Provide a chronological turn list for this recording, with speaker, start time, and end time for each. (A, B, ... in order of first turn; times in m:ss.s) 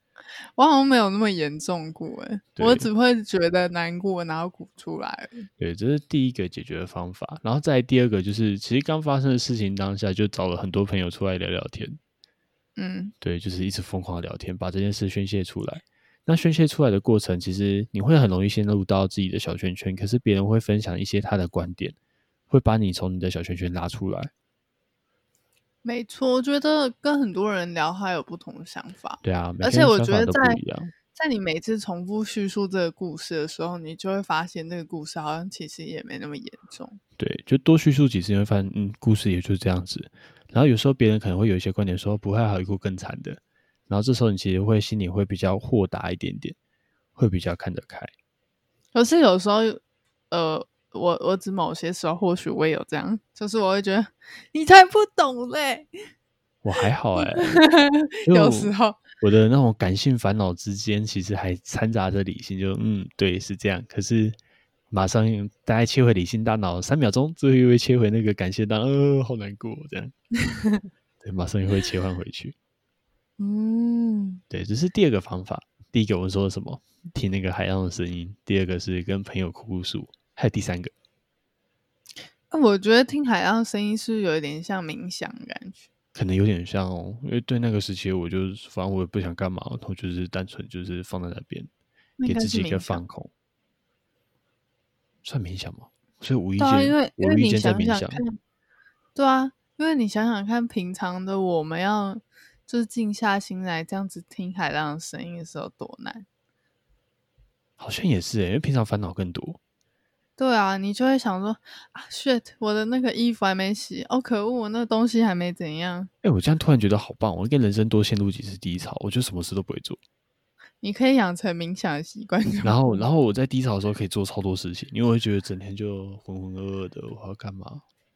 0:00.6-0:05.5 A
0:02.6-0:02.9 B
0:05.6-0:12.0 B
0:12.8-0:13.1 A
0:13.2-0:22.0 B
0:22.5-0:24.3 B
0:25.8-0:30.6 A
0:29.2-0:30.9 B
0:31.1-0:37.0 A
0:37.2-0:46.6 B
0:47.2-0:48.1 B
0:48.9-0:55.9 A
0:56.6-0:57.6 B
0:57.2-0:59.0 A
0:58.2-1:04.4 B
1:04.9-1:10.1 B
1:10.5-1:10.8 A
1:11.2-1:12.6 B
1:13.4-1:14.4 A
1:14.5-1:20.9 B
1:22.5-1:25.9 A
1:26.2-1:31.7 B
1:32.2-1:33.0 A
1:32.2-1:33.3 B
1:35.2-1:38.2 B
1:36.6-1:38.4 A
1:39.2-1:46.2 A
1:47.8-1:49.6 B
1:50.4-1:56.1 A
1:56.2-2:00.0 B
2:00.8-2:03.0 A
2:02.6-2:07.8 B